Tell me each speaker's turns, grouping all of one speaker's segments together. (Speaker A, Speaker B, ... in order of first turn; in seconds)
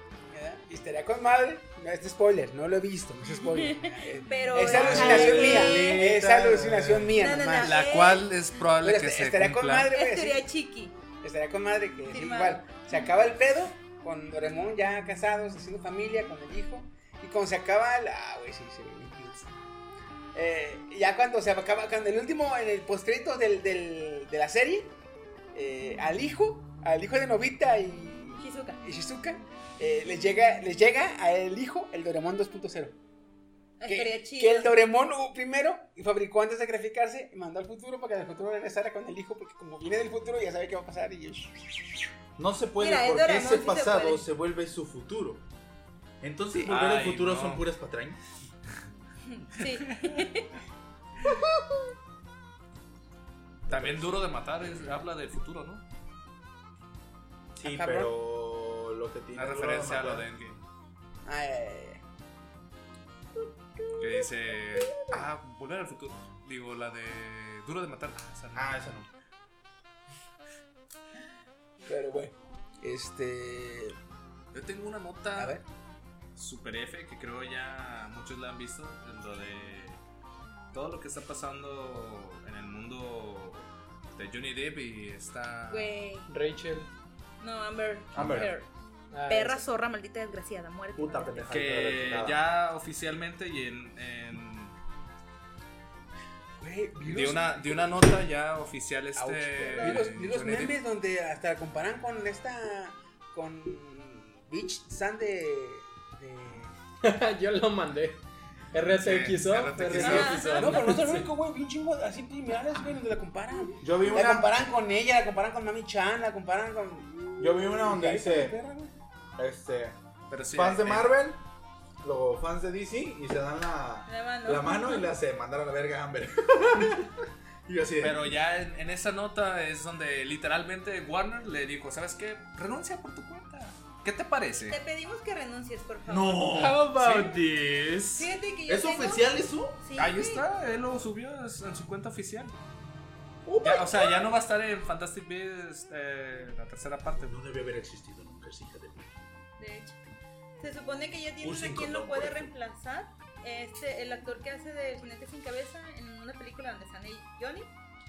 Speaker A: 0.3-7.7, 8.8-10.4, 11.2-19.5, 20.3-24.9, 25.5-32.9, 33.9-41.8, 57.6-58.1, 61.2-62.0, 71.8-74.0, 75.3-75.7, 96.6-97.7, 99.2-106.7, 110.5-118.9
Speaker B: 3.4-6.0, 7.2-8.3, 9.9-10.9, 12.1-13.1, 28.4-28.8, 33.8-34.7, 42.8-44.2, 49.3-50.6, 63.8-64.3, 85.7-86.3, 87.4-88.7, 89.3-91.5, 99.7-100.0, 109.9-110.8, 124.1-125.1, 134.7-136.6, 138.1-140.4, 149.6-150.0, 150.6-157.7
Speaker C: 4.7-7.2, 42.4-45.4, 46.2-48.2, 53.7-54.9, 57.5-60.2, 68.5-69.1, 88.1-88.5, 91.0-92.4, 113.8-114.5, 117.4-118.6, 119.3-120.0, 120.5-121.4, 122.0-127.1, 127.7-128.3, 136.1-136.9, 138.7-139.8, 143.4-144.2, 147.3-149.2, 151.4-152.5
Speaker D: 7.6-9.9, 46.5-47.6, 49.6-50.2, 53.7-55.8, 59.3-60.6, 64.0-69.0, 74.5-75.6, 76.3-80.0, 80.7-85.9, 88.2-88.5, 91.5-94.8, 97.0-100.8, 108.9-110.5, 120.3-121.2, 128.0-134.8, 136.9-137.3, 139.9-142.6, 143.6-147.4
Speaker E: 86.3-86.9, 89.1-89.6, 107.0-111.3, 136.5-138.2